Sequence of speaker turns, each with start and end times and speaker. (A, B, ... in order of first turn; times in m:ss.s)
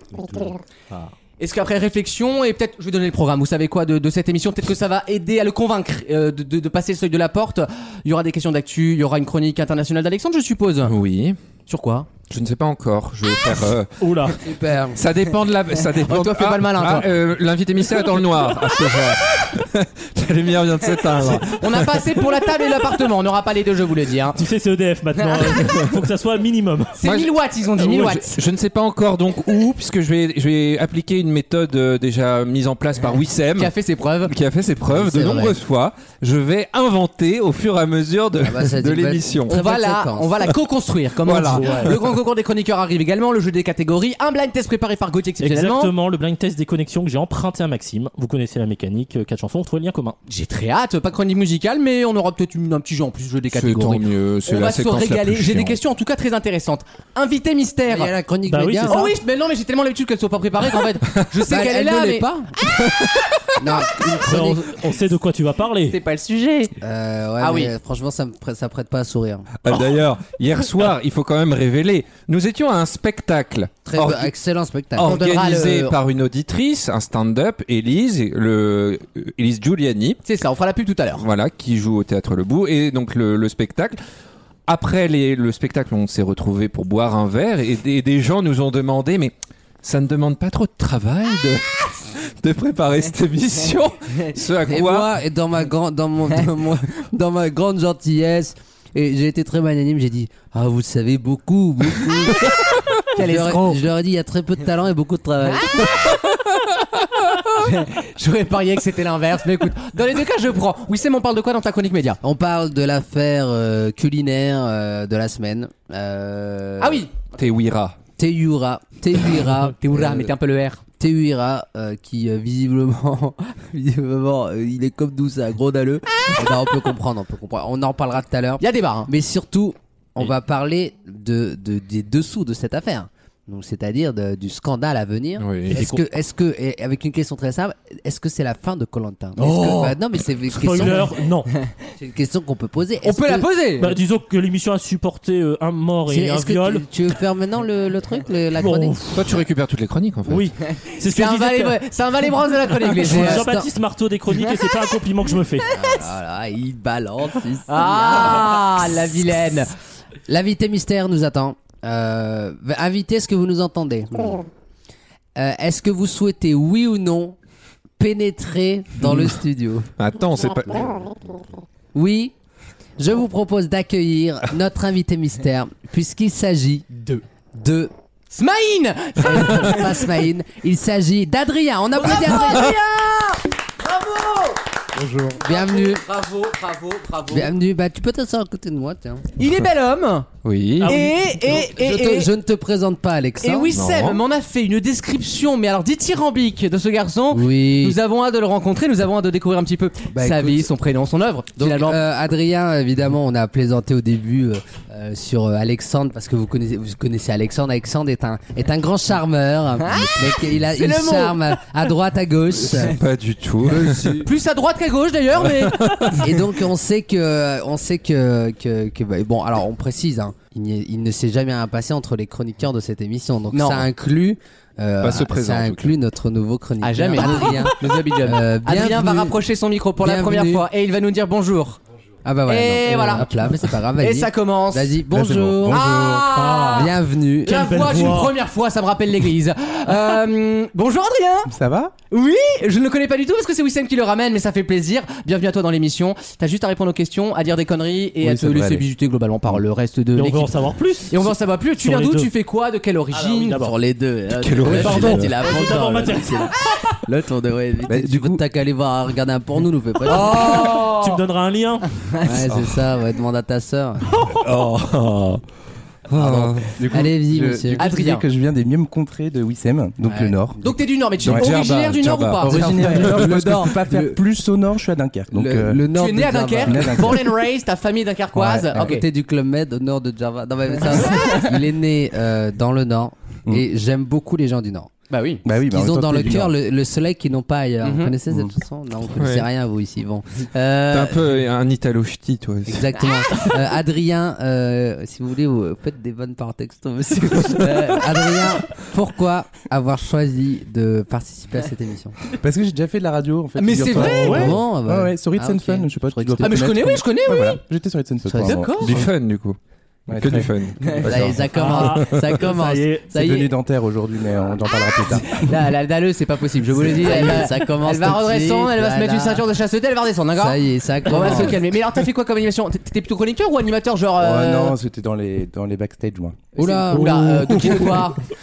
0:00.2-0:01.1 A
0:01.4-0:10.9 B
0:10.8-0:11.4 C
0:11.7-0:12.1 B
0:12.3-0:14.4 C
0:14.0-0:14.4 A
0:14.4-0:15.0 D
0:14.9-0:22.5 C
0:16.0-0:17.1 B
0:21.5-0:24.4 B
0:24.4-0:27.0 A
0:27.0-0:28.4 B
0:27.0-0:33.7 C
0:33.5-0:34.3 B
0:34.2-0:39.6 C
0:34.9-0:35.5 D
0:38.4-0:40.3 D
0:39.5-0:45.9 B
0:41.2-0:41.9 C
0:41.5-0:41.9 A
0:45.4-0:50.2 A
0:50.3-0:58.1 B
0:53.5-0:55.8 C
0:57.9-0:59.1 D
0:58.5-0:59.1 A
0:58.9-1:02.3 B
1:01.4-1:02.5 D
1:03.6-1:04.8 D
1:04.2-1:06.0 A
1:05.9-1:06.7 B
1:06.8-1:09.5 D
1:07.4-1:07.7 B
1:09.6-1:14.3 C
1:13.9-1:15.3 D
1:15.0-1:20.2 C
1:15.0-1:16.0 B
1:20.2-1:21.2 B
1:21.2-1:24.0 C
1:24.7-1:35.1 C
1:34.6-1:42.6 D
1:43.1-1:43.8 B
1:43.1-1:46.2 D
1:47.6-1:52.2 B
1:52.2-1:57.0 D
1:56.8-1:57.2 B
1:57.3-1:58.0 C
1:58.2-2:00.3 D
1:59.8-2:00.8 B
2:01.0-2:21.1 D
2:08.6-2:09.1 B
2:15.4-2:15.8 C
2:15.7-2:16.0 A
2:19.4-2:21.5 A
2:22.0-2:23.5 D
2:23.0-2:24.0 B
2:23.8-2:26.8 A
2:26.1-2:29.3 D
2:28.6-2:29.2 A
2:29.1-2:30.5 C
2:30.3-2:31.8 A
2:31.0-2:33.4 B
2:32.8-2:35.7 A
2:33.0-2:33.7 D
2:35.7-2:38.6 D
2:37.7-2:39.7 B
2:40.3-2:44.5 D
2:45.4-2:47.4 D
2:48.0-2:49.9 D
2:50.0-2:51.1 C
2:51.9-2:52.3 D
2:53.0-2:56.9 D
2:57.0-2:57.2 B
2:57.5-2:57.9 D
2:58.3-3:00.0 B
2:59.2-3:02.8 D
3:02.0-3:04.6 B
3:04.9-3:06.0 D
3:05.4-3:07.5 B
3:07.3-3:09.2 D
3:09.4-3:10.3 B
3:10.4-3:11.0 C
3:10.8-3:11.2 A
3:10.8-3:12.3 B
3:11.4-3:13.7 D
3:13.4-3:22.0 B
3:13.7-3:14.2 C
3:17.3-3:18.0 D
3:20.1-3:20.7 D
3:21.6-3:33.0 D
3:29.9-3:31.5 B
3:32.6-3:34.2 C
3:33.6-3:34.3 D
3:34.2-3:36.0 B
3:35.6-3:36.2 C
3:36.2-3:49.4 D
3:43.5-3:43.8 B
3:45.0-3:45.9 C
3:46.8-3:51.8 B
3:50.0-3:50.7 D
3:52.2-3:57.7 D
3:52.5-3:53.4 B
3:54.0-3:55.0 B
3:55.1-3:55.9 E
3:55.6-3:56.9 B
3:56.3-3:56.9 A
3:57.4-4:01.5 B
3:57.5-3:58.4 A
4:01.5-4:01.9 E
4:02.1-4:10.5 B
4:08.2-4:08.9 E
4:10.2-4:12.3 A
4:11.1-4:13.6 B
4:13.1-4:13.8 A
4:13.5-4:20.9 D
4:14.4-4:15.3 C
4:14.6-4:16.6 A
4:17.8-4:18.4 E
4:20.1-4:21.2 B
4:20.1-4:21.9 A
4:22.2-4:24.2 D
4:22.4-4:22.8 C
4:24.4-4:25.4 C
4:26.1-4:26.8 C
4:26.1-4:27.9 D
4:26.8-4:30.6 E
4:27.8-4:28.2 B
4:30.0-4:30.6 D
4:30.6-4:33.0 B
4:31.2-4:33.3 C
4:32.4-4:35.8 E
4:32.5-4:34.2 D
4:35.3-4:37.2 D
4:35.9-4:39.0 B
4:36.6-4:37.3 E
4:38.4-4:38.9 E
4:38.6-4:44.9 D
4:45.1-4:45.4 B
4:45.4-4:46.5 E
4:45.6-4:51.3 D
4:47.8-4:48.1 B
4:49.2-4:49.5 C
4:50.9-4:52.9 C
4:52.7-5:02.2 D
5:02.4-5:09.0 E
5:03.6-5:04.5 B
5:04.0-5:04.5 A
5:04.2-5:06.7 D
5:06.4-5:07.6 B
5:08.2-5:08.6 D
5:08.4-5:09.0 B
5:08.8-5:09.6 C
5:10.1-5:11.4 E
5:10.1-5:11.8 C
5:11.0-5:13.5 D
5:11.5-5:13.1 A
5:13.1-5:15.5 E
5:15.2-5:24.8 B
5:16.8-5:19.4 D
5:20.4-5:21.6 D
5:24.2-5:26.4 E
5:26.5-5:28.2 B
5:26.6-5:27.9 D
5:26.9-5:28.0 A